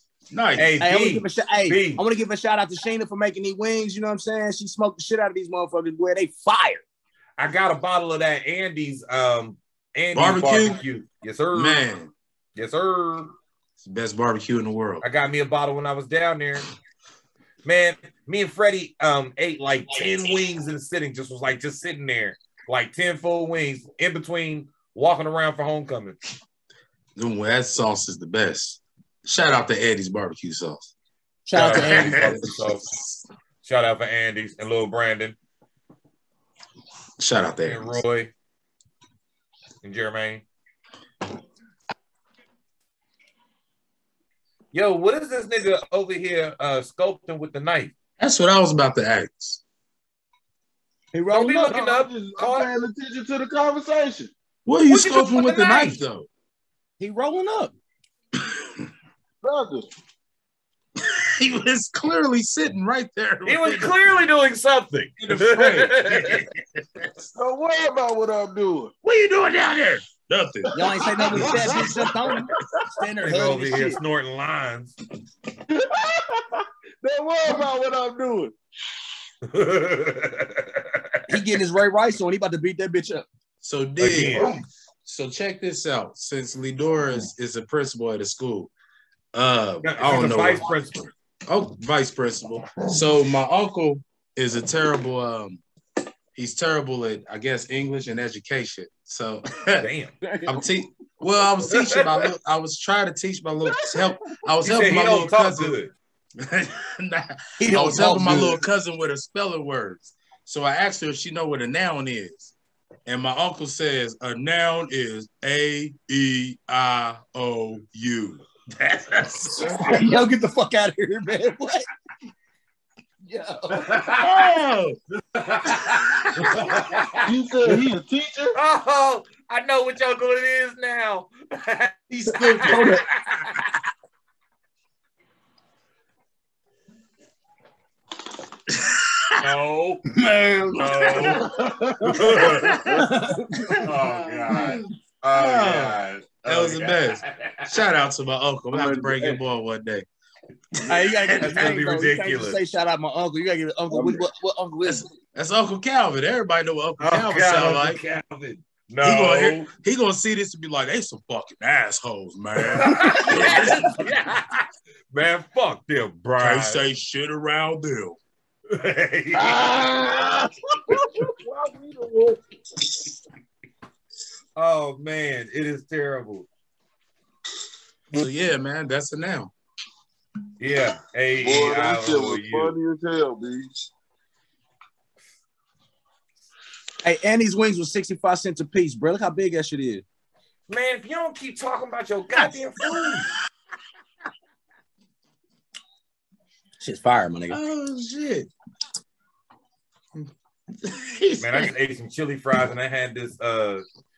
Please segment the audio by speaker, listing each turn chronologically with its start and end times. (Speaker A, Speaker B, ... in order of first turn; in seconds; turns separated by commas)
Speaker A: 0.3-0.8, Speaker B: 0.6-2.0, Speaker C: 0.8-6.8, Speaker B: 7.4-11.8, Speaker A: 10.1-10.8, Speaker A: 11.5-12.1, Speaker B: 12.6-13.3, Speaker A: 13.8-15.0, Speaker B: 15.0-16.7, Speaker B: 17.6-26.2, Speaker A: 27.2-30.9, Speaker C: 31.5-32.4, Speaker B: 31.5-32.9, Speaker A: 31.5-33.0, Speaker B: 33.6-35.4, Speaker A: 37.2-38.0, Speaker B: 37.6-38.3, Speaker B: 39.8-40.4, Speaker B: 44.7-47.9, Speaker A: 48.2-49.6, Speaker C: 51.1-51.8, Speaker B: 51.3-52.7, Speaker D: 51.7-54.3, Speaker A: 54.7-56.3, Speaker B: 54.9-56.0, Speaker C: 57.0-57.7, Speaker D: 59.4-59.9, Speaker A: 61.0-64.0, Speaker B: 63.5-66.5, Speaker A: 65.2-67.3, Speaker D: 67.3-68.9, Speaker A: 69.0-72.1, Speaker C: 70.7-74.0, Speaker D: 70.7-72.8, Speaker B: 73.2-75.0, Speaker D: 75.7-78.5, Speaker B: 79.5-81.2, Speaker C: 81.3-83.3, Speaker A: 83.6-88.7, Speaker B: 84.0-84.5, Speaker A: 89.3-90.8, Speaker B: 89.8-91.1, Speaker A: 91.5-95.6, Speaker A: 96.3-99.9, Speaker B: 99.8-100.1, Speaker D: 100.2-100.6, Speaker A: 100.5-105.8, Speaker B: 101.7-102.3, Speaker D: 103.7-104.1, Speaker B: 104.6-105.9, Speaker A: 106.4-112.5, Speaker C: 107.6-108.6, Speaker A: 113.1-120.0, Speaker C: 119.8-121.9, Speaker C: 123.2-124.2, Speaker B: 123.7-124.5, Speaker A: 124.2-125.0, Speaker B: 125.3-127.3, Speaker D: 127.2-128.6, Speaker B: 128.6-133.6, Speaker A: 132.1-132.9, Speaker C: 132.7-133.1, Speaker B: 139.4-140.0, Speaker C: 140.2-141.4, Speaker B: 140.7-141.5, Speaker A: 141.0-141.4, Speaker D: 141.2-143.0, Speaker A: 142.1-143.1, Speaker B: 142.2-142.7, Speaker C: 142.6-143.9, Speaker B: 143.8-147.8, Speaker A: 144.5-144.8, Speaker A: 145.3-150.1, Speaker D: 148.7-149.4, Speaker A: 150.8-151.5, Speaker C: 150.9-155.1, Speaker B: 151.4-152.6, Speaker D: 153.9-154.2, Speaker A: 154.8-158.0, Speaker B: 157.0-159.7, Speaker A: 159.0-164.1, Speaker B: 162.7-164.6, Speaker B: 165.1-166.8, Speaker A: 166.4-168.2, Speaker B: 168.7-169.8, Speaker D: 169.3-172.4, Speaker B: 174.6-176.5, Speaker A: 178.1-179.5, Speaker B: 180.6-182.7, Speaker D: 181.4-183.7, Speaker C: 187.0-190.0, Speaker B: 190.7-193.3, Speaker A: 192.8-193.2, Speaker C: 196.8-197.6, Speaker A: 197.5-198.5, Speaker A: 200.8-201.7, Speaker B: 201.4-203.8